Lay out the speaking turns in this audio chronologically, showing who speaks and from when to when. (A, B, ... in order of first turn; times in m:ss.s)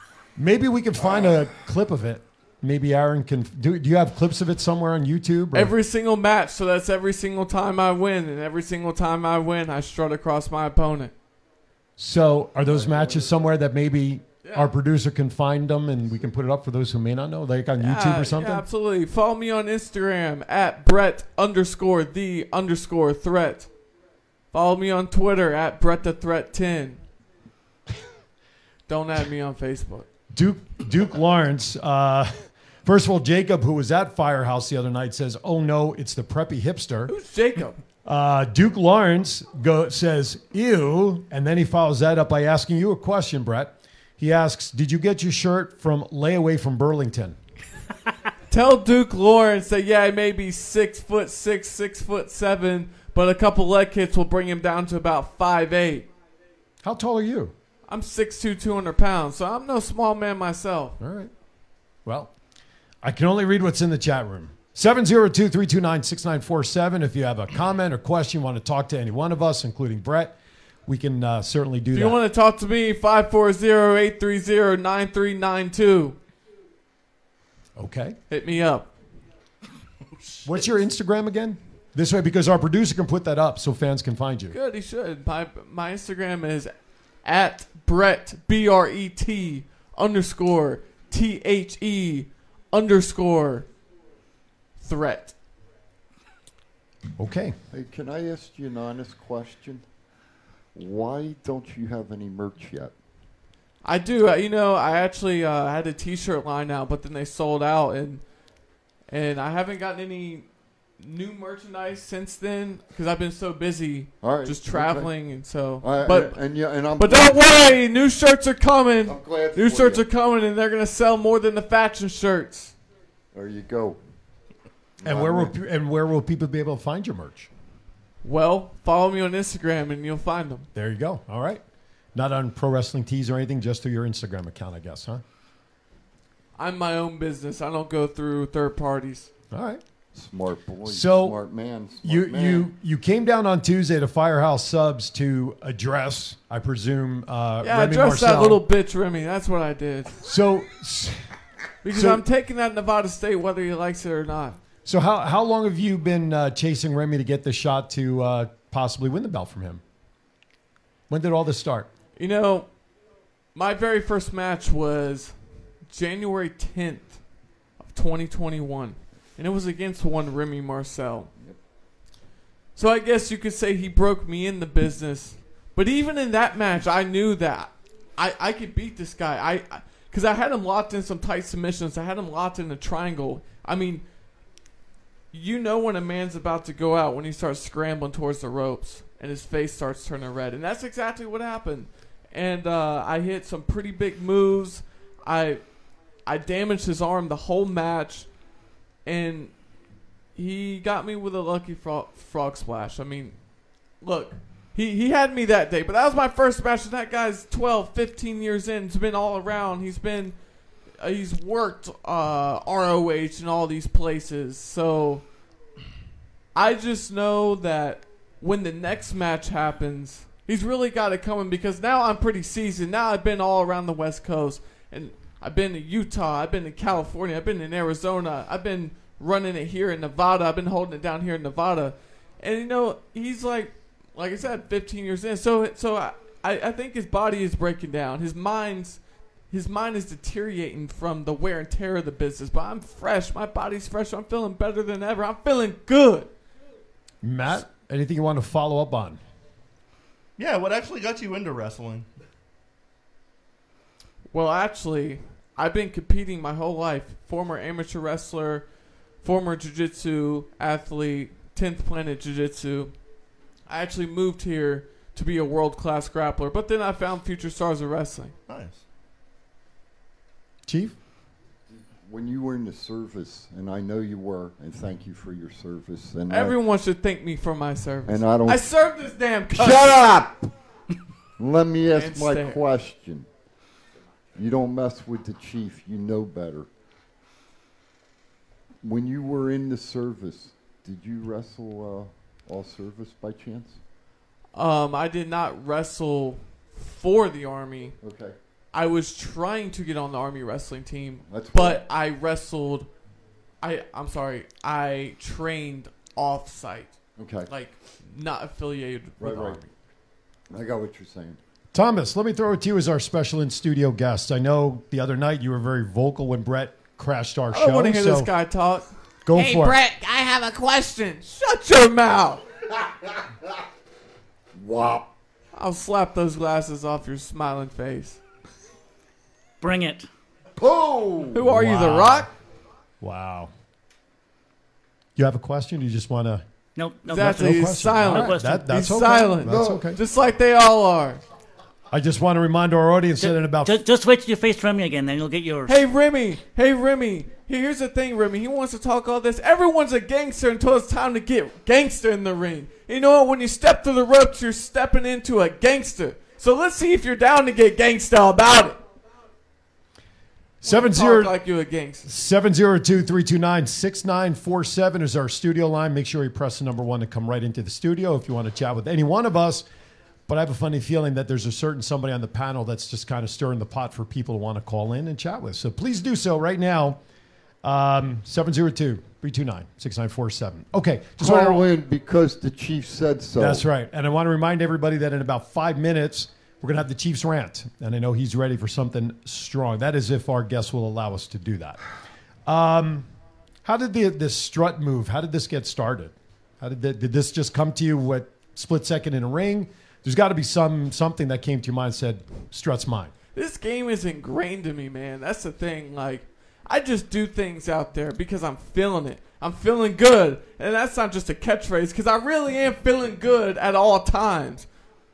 0:00.4-0:05.7 A
0:05.5-0:11.1 B
0:12.0-0:18.6 A
0:12.7-0:13.4 C
0:14.4-0:14.7 B
0:17.8-0:23.7 B
0:24.5-0:27.0 B
0:28.9-0:30.1 B
0:30.3-0:32.3 A
0:32.8-0:37.1 A
0:37.1-0:37.8 B
0:38.0-0:47.4 A
0:48.5-0:56.1 B
0:56.8-0:57.5 A
0:57.9-1:01.0 B
1:01.0-1:01.3 A
1:02.0-1:02.3 A
1:03.0-1:12.2 A
1:11.9-1:16.2 B
1:17.8-1:18.2 A
1:18.3-1:18.9 B
1:20.4-1:24.6 A
1:24.5-1:26.7 B
1:27.2-1:33.7 B
1:34.8-1:35.3 B
1:37.2-1:37.6 A
1:37.7-1:39.8 C
1:40.8-1:42.9 C
1:43.8-1:48.2 B
1:49.1-1:50.5 B
1:51.0-1:56.4 B
1:54.2-1:55.1 C
1:55.8-1:57.5 C
1:57.0-2:02.7 B
1:59.1-2:00.1 C
2:03.3-2:04.0 C
2:05.0-2:05.5 C
2:05.0-2:07.5 A
2:08.2-2:10.7 B
2:10.8-2:11.6 A
2:12.2-2:15.2 A
2:16.6-2:19.3 B
2:19.5-2:19.8 A
2:20.1-2:22.7 C
2:20.8-2:21.4 A
2:22.0-2:28.6 A
2:27.6-2:30.2 B
2:30.2-2:31.2 A
2:31.8-2:34.6 B
2:31.9-2:32.2 A
2:34.8-2:39.8 A
2:41.1-2:41.9 A
2:42.2-2:42.7 B
2:43.6-2:45.3 B
2:45.9-2:47.2 B
2:47.8-2:51.3 B
2:52.8-3:04.0 B
3:05.3-3:15.6 B
3:16.3-3:18.3 B
3:19.0-3:19.5 B
3:20.4-3:23.4 B
3:24.0-3:30.4 B
3:31.0-3:35.2 B
3:36.6-4:06.3 B
4:07.2-4:09.2 A
4:10.4-4:12.1 D
4:14.3-4:18.7 B
4:19.2-4:22.9 B
4:23.7-4:28.3 B
4:28.5-4:28.8 D
4:30.7-4:31.0 A
4:31.7-4:36.6 C
4:36.3-4:40.0 B
4:38.1-4:38.7 C
4:39.5-4:40.5 C
4:41.4-4:43.3 C
4:41.9-4:42.6 B
4:44.4-4:46.7 C
4:48.8-4:53.8 C
4:54.5-4:58.0 B
4:58.0-4:58.4 C
4:58.7-5:02.9 B
5:01.3-5:01.8 C
5:03.6-5:06.9 B
5:07.2-5:07.5 C
5:07.5-5:09.7 B
5:09.2-5:09.6 C
5:10.5-5:11.4 C
5:11.7-5:18.3 A
5:17.5-5:22.4 B
5:19.2-5:19.8 A
5:24.6-5:25.1 C
5:25.5-5:28.2 B
5:29.6-5:30.1 E
5:30.6-5:31.4 C
5:31.3-5:32.3 B
5:31.4-5:32.3 A
5:33.0-5:33.5 A
5:35.2-5:36.4 A
5:36.8-5:38.7 E
5:37.1-5:41.2 B
5:37.1-5:40.0 A
5:39.4-5:39.9 C
5:41.9-5:43.8 A
5:43.2-5:45.8 E
5:45.7-5:58.8 B
6:00.6-6:01.4 A
6:00.6-6:02.1 B
6:02.0-6:09.6 A
6:10.3-6:17.0 A
6:17.6-6:21.7 A
6:21.2-6:23.7 C
6:23.4-6:31.8 A
6:32.5-6:33.1 A
6:33.6-6:43.1 A
6:43.3-6:54.7 B